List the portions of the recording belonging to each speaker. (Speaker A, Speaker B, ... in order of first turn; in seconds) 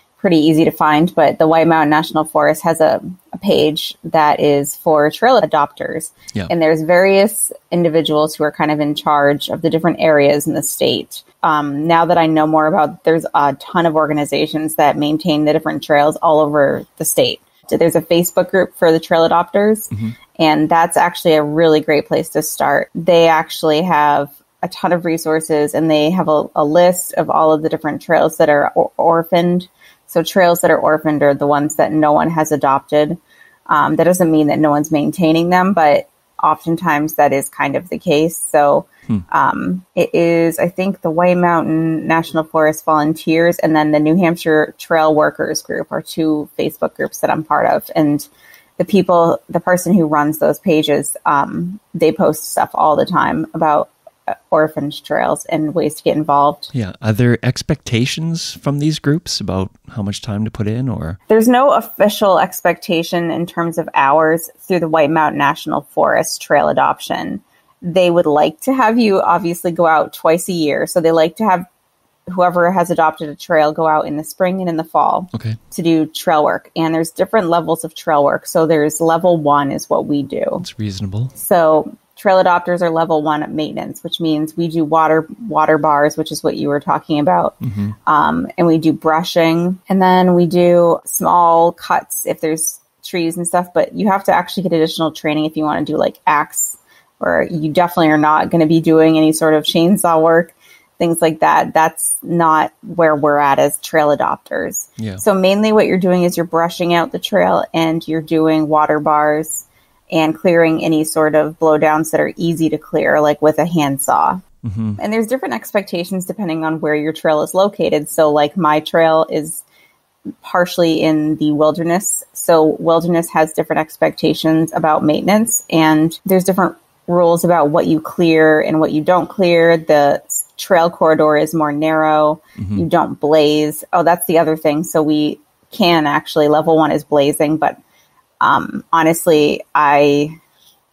Speaker A: 0.2-48.3, 48.8-56.7, 61.3-71.7, 72.3-80.7, 81.4-87.5, 88.1-114.4, 115.0-119.6, 120.4-137.8, 138.4-140.4
Speaker B: 56.7-61.2, 80.6-81.3, 87.6-88.0, 105.0-105.2, 114.6-115.0, 132.6-132.8